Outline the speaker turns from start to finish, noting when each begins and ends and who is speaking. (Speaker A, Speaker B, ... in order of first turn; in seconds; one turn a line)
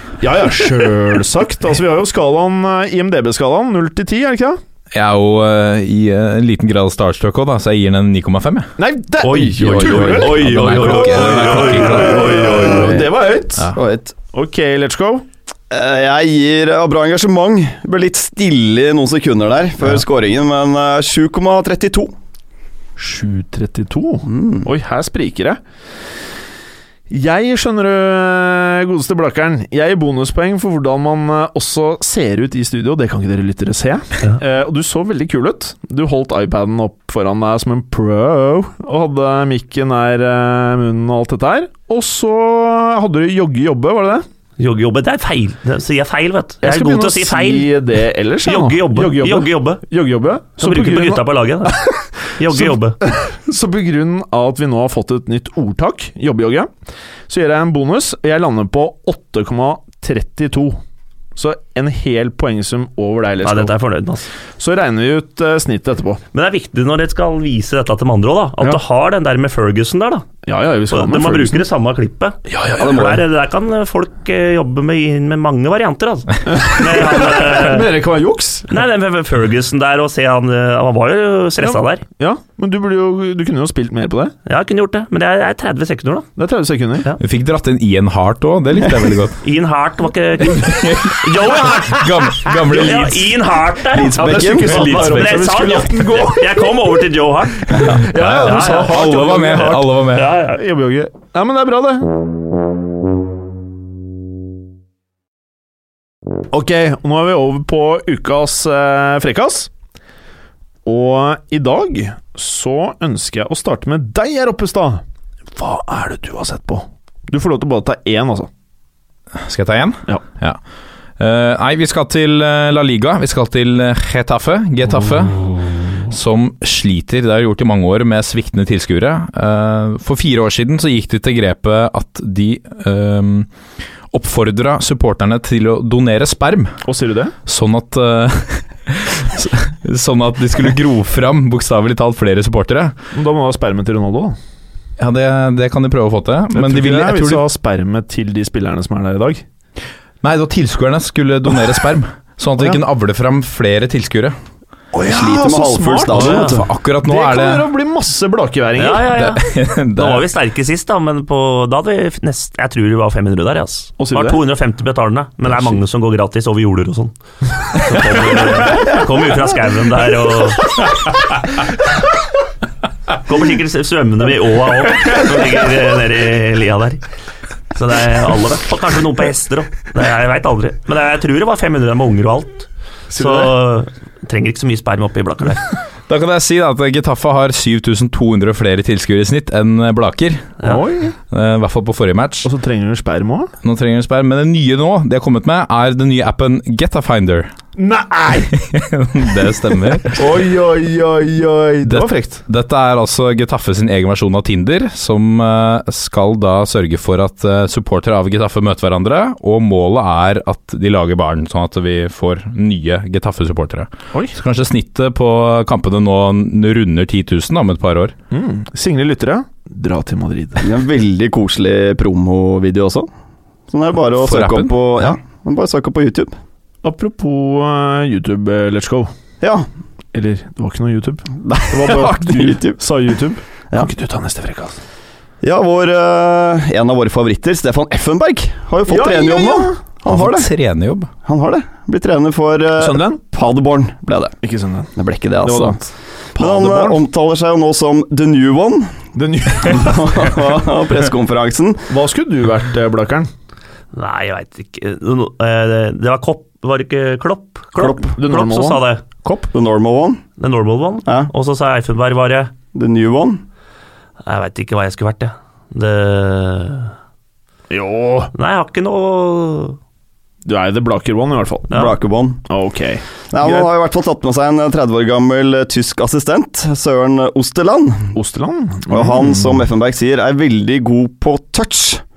Speaker A: 0.2-4.6
Speaker B: 4.9-8.7
Speaker A: 8.8-13.7
Speaker C: 9.2-13.0
Speaker D: 9.3-10.7
Speaker B: 9.6-12.4
Speaker D: 12.0-14.1
Speaker A: 14.3-15.2
Speaker D: 15.7-22.1
Speaker A: 23.0-25.6
Speaker D: 24.2-24.7
Speaker A: 27.1-44.2
Speaker C: 44.6-47.7
Speaker A: 46.6-56.7
Speaker C: 48.4-49.8
Speaker C: 50.6-51.8
Speaker C: 52.4-53.0
Speaker A: 57.3-60.8
Speaker A: 61.4-63.7
Speaker C: 63.4-64.3
Speaker A: 64.6-66.2
Speaker C: 66.3-70.3
Speaker A: 70.4-71.6
Speaker C: 70.9-77.9
Speaker A: 72.5-73.2
Speaker A: 76.5-78.7
Speaker C: 78.7-82.0
Speaker A: 81.6-84.3
Speaker C: 84.5-86.3
Speaker A: 86.3-87.1
Speaker B: 87.2-89.4
Speaker C: 89.4-100.6
Speaker B: 90.5-93.3
Speaker D: 93.9-95.3
Speaker A: 94.1-97.0
Speaker B: 94.7-95.4
Speaker A: 97.7-102.1
Speaker B: 98.0-100.3
Speaker A: 106.5-109.7
Speaker A: 110.8-115.0
Speaker A: 115.5-118.5
Speaker B: 119.4-120.6
Speaker B: 121.2-133.5
Speaker B: 134.1-136.8
Speaker A: 136.8-137.3
Speaker B: 137.4-142.9
Speaker A: 143.1-144.4
Speaker B: 145.0-147.4
Speaker A: 146.5-149.4
Speaker B: 150.2-154.3
Speaker A: 154.9-159.1
Speaker D: 155.0-156.6
Speaker B: 156.1-157.7
Speaker C: 158.8-167.1
Speaker B: 159.1-160.3
Speaker A: 164.0-164.4
Speaker C: 167.7-170.8
Speaker C: 173.2-177.0
Speaker C: 177.7-185.6
Speaker A: 183.1-183.5
Speaker B: 186.1-190.6
Speaker A: 190.6-191.2
Speaker B: 191.3-192.5
Speaker A: 192.4-193.5
Speaker B: 193.6-197.5
Speaker A: 197.8-198.5
Speaker B: 198.5-200.2
Speaker A: 200.0-202.4
Speaker B: 201.8-218.1
Speaker A: 218.3-220.7
Speaker D: 220.6-223.1
Speaker D: 223.7-226.3
Speaker B: 224.2-225.1
Speaker A: 226.8-229.1
Speaker D: 229.4-229.7
Speaker A: 230.1-234.8
Speaker D: 231.4-232.8
Speaker D: 235.4-240.5
Speaker A: 238.9-239.8
Speaker B: 240.1-241.1
Speaker D: 241.2-244.3
Speaker A: 242.8-243.2
Speaker A: 244.4-247.0
Speaker D: 244.9-245.8
Speaker D: 246.3-249.0
Speaker A: 249.1-250.4
Speaker D: 249.6-251.8
Speaker A: 251.9-253.3
Speaker C: 253.9-259.0
Speaker D: 257.8-258.1
Speaker A: 258.1-259.5
Speaker D: 259.5-260.2
Speaker C: 260.4-262.5
Speaker D: 261.0-261.3
Speaker D: 262.7-263.4
Speaker C: 264.2-266.9
Speaker A: 267.7-268.3
Speaker C: 268.3-269.8
Speaker A: 270.4-271.8
Speaker D: 271.7-272.4
Speaker A: 272.5-273.7
Speaker D: 273.3-278.1
Speaker A: 278.1-279.6
Speaker D: 278.9-282.0